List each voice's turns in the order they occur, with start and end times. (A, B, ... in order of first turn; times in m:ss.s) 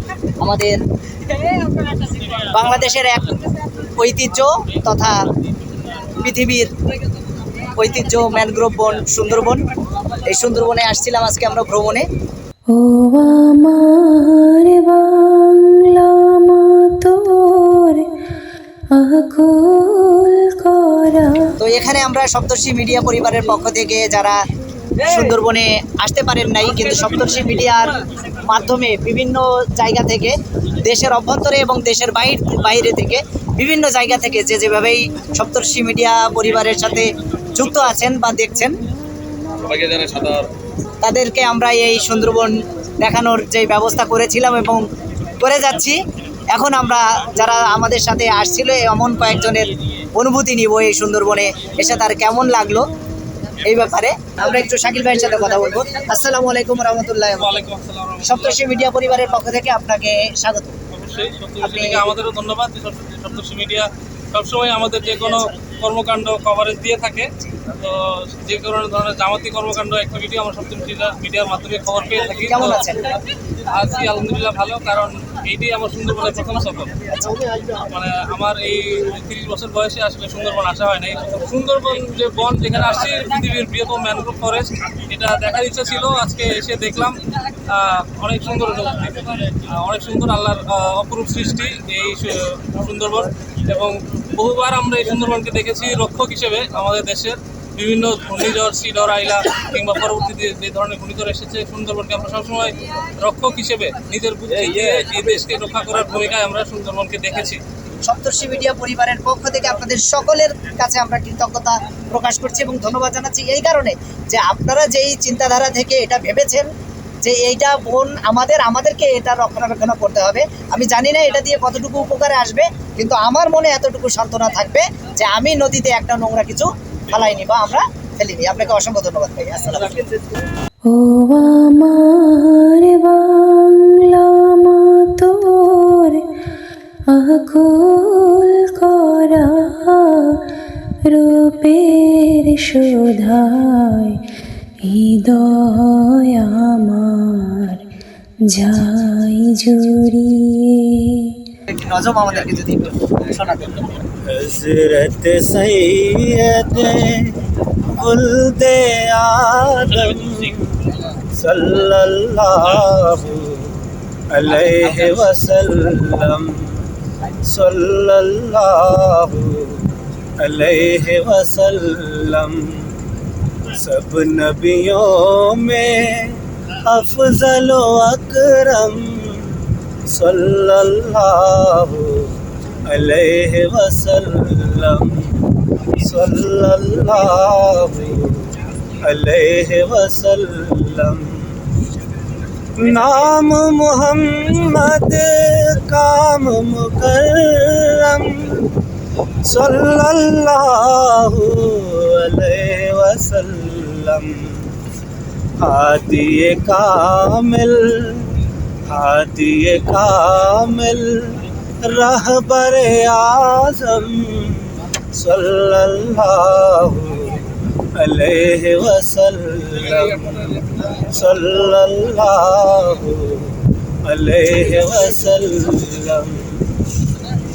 0:00.4-0:00.8 A
0:02.3-0:03.3 A
0:03.9-0:05.2 A
0:06.2-0:06.7 A
0:07.8-0:09.6 A
0:10.2-0:12.1 A
0:12.7-0:18.1 B
0:19.0-0:21.6 B
0:21.6-0:24.4 A
0:25.0-0:38.8 A
0:39.7-0:40.4 C
0:41.0-0:44.8 A
0:45.4-0:46.0 A
0:46.5-0:52.9 A
0:53.6-0:57.6 A
0:57.4-0:58.6 C
0:58.2-1:00.8 A
1:00.9-1:12.9 C
1:01.6-1:02.1 A
1:12.4-1:13.0 A
1:13.6-1:17.0 C
1:17.2-1:17.5 A
1:17.9-1:47.6 C
1:48.1-1:56.7 A
1:57.2-2:10.1 A
2:10.9-2:16.2 B
2:17.1-2:20.5 B
2:21.1-2:24.2 B
2:24.9-2:27.8 B
2:28.5-2:31.4 B
2:31.7-2:33.9 A
2:34.3-2:46.9 D
2:47.4-2:53.0 D
2:53.7-3:11.7 D
3:12.8-3:18.7 D
3:19.4-3:24.7 D
3:25.6-3:28.3 D
3:28.9-3:37.4 D
3:38.0-3:46.6 D